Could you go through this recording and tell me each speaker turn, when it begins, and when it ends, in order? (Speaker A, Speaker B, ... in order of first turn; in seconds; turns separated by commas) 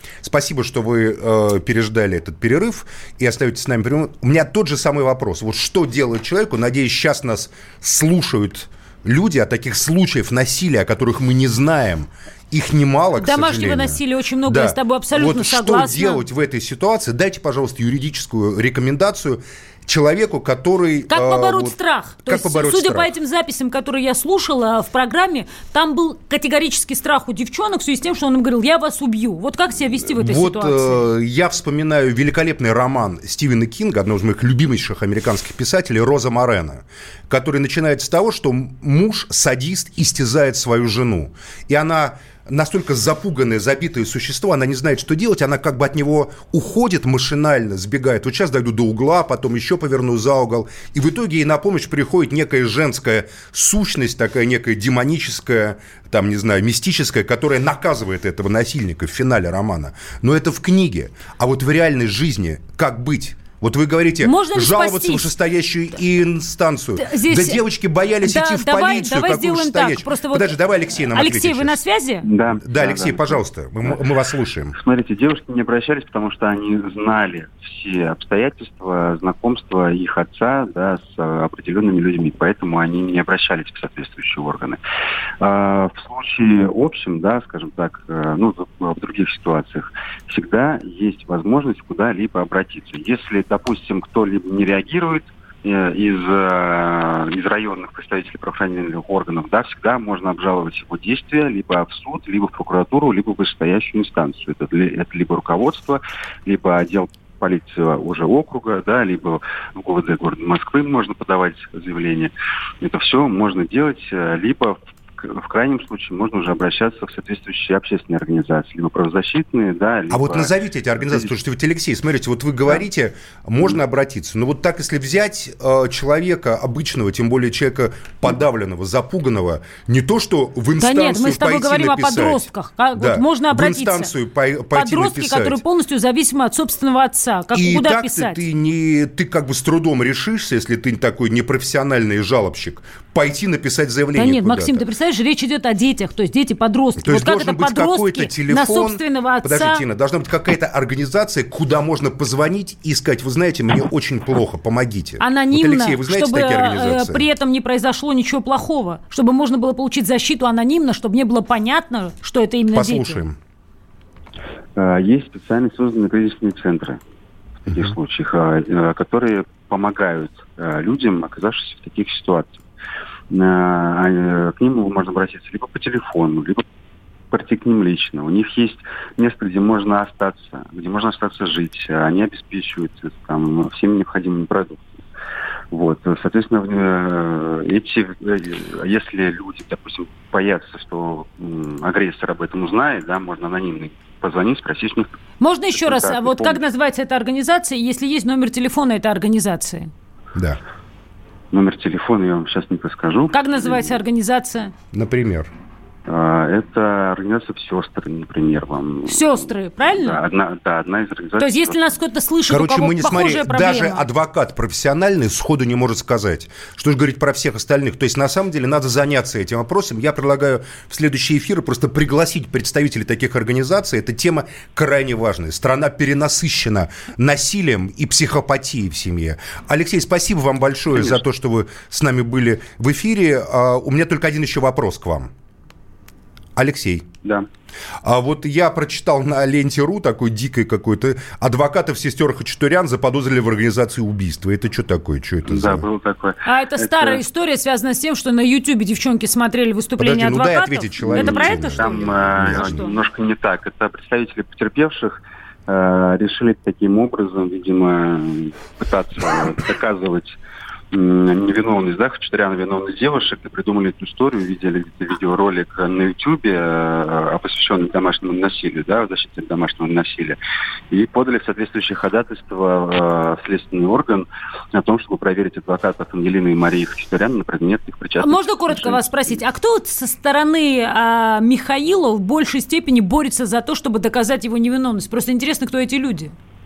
Speaker A: 0.2-23.1, Speaker B: 13.2-16.2, Speaker B: 21.1-31.0, Speaker A: 30.0-71.8, Speaker B: 64.2-65.3, Speaker B: 67.0-67.6, Speaker B: 68.2-72.3, Speaker C: 72.2-74.0, Speaker A: 72.6-74.8, Speaker C: 74.8-84.8, Speaker C: 85.4-121.3, Speaker A: 120.1-135.6, Speaker B: 130.8-134.1, Speaker B: 134.7-138.4, Speaker A: 137.5-144.9, Speaker B: 144.2-149.8, Speaker A: 147.0-157.3, Speaker B: 155.2-163.2, Speaker A: 162.7-163.4, Speaker C: 164.8-167.0, Speaker C: 167.7-172.6, Speaker C: 173.3-176.6, Speaker C: 177.3-184.9, Speaker C: 185.7-195.1, Speaker B: 195.4-199.9, Speaker C: 195.7-196.6, Speaker A: 200.3-200.6, Speaker C: 201.5-203.9, Speaker B: 203.3-204.7, Speaker A: 204.9-205.5, Speaker C: 206.1-211.8, Speaker B: 209.1-210.2, Speaker B: 211.4-214.1, Speaker A: 212.5-235.3, Speaker A: 236.6-237.1, Speaker A: 238.0-245.8, Speaker C: 245.5-247.2, Speaker B: 246.4-253.0, Speaker A: 250.0-252.8, Speaker C: 251.1-260.4, Speaker C: 260.9-270.4, Speaker C: 270.9-279.4, Speaker B: 278.2-286.3